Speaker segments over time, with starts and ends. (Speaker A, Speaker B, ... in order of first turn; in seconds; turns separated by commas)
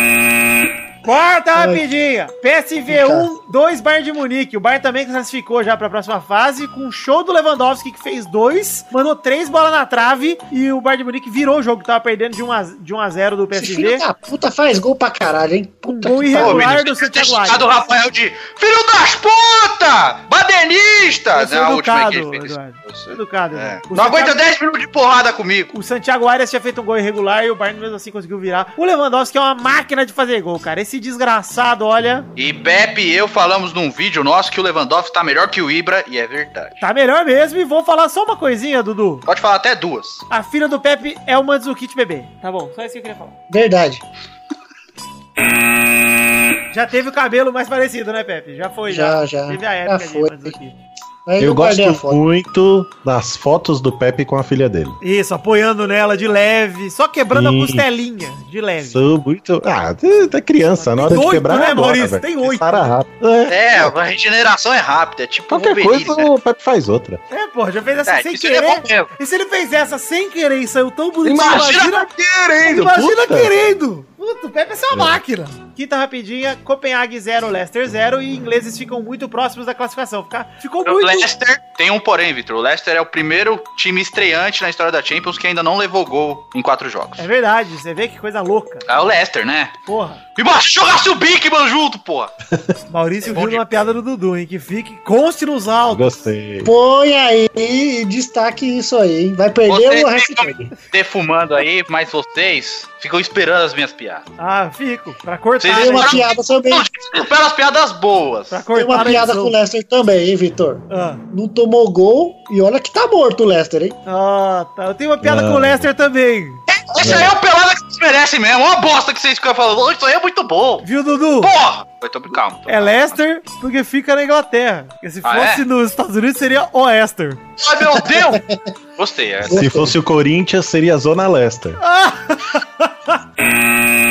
Speaker A: 1.0-14.0, Speaker B: 1.6-1.8, Speaker B: 2.9-3.3, Speaker B: 13.6-16.7, Speaker A: 15.9-17.7, Speaker C: 16.4-25.7, Speaker A: 21.3-24.4, Speaker A: 25.7-32.3, Speaker C: 32.4-36.8, Speaker A: 36.8-39.2, Speaker C: 39.3-40.2, Speaker A: 40.3-43.4, Speaker B: 43.5-44.0, Speaker A: 46.7-50.8, Speaker B: 48.9-50.5, Speaker B: 51.3-52.2, Speaker D: 51.4-55.0, Speaker A: 55.0-59.0, Speaker D: 57.3-57.9, Speaker D: 58.9-63.9, Speaker A: 60.8-63.0, Speaker C: 63.5-66.3, Speaker D: 65.5-67.2, Speaker A: 67.3-72.1, Speaker C: 68.1-69.1, Speaker D: 71.2-73.5, Speaker C: 71.3-71.9, Speaker A: 72.6-81.3, Speaker C: 80.8-87.3, Speaker A: 87.2-88.8, Speaker C: 88.9-89.7, Speaker A: 89.9-90.2, Speaker C: 90.4-92.3, Speaker A: 92.9-96.3, Speaker C: 93.2-93.8, Speaker D: 95.9-96.7, Speaker B: 96.7-100.7, Speaker C: 99.7-104.2, Speaker A: 104.4-106.2, Speaker C: 105.6-108.6, Speaker B: 105.7-106.8, Speaker A: 108.5-109.5, Speaker B: 108.7-114.0, Speaker A: 110.9-111.2, Speaker A: 114.1-116.6, Speaker D: 115.2-115.9, Speaker C: 116.7-120.8, Speaker D: 117.0-117.3, Speaker A: 120.8-121.5, Speaker C: 121.4-123.2, Speaker A: 122.7-127.4, Speaker C: 125.2-125.6, Speaker C: 127.6-128.4, Speaker B: 128.0-128.5, Speaker C: 129.0-129.6, Speaker B: 129.5-130.0, Speaker D: 129.5-131.8, Speaker A: 131.8-133.2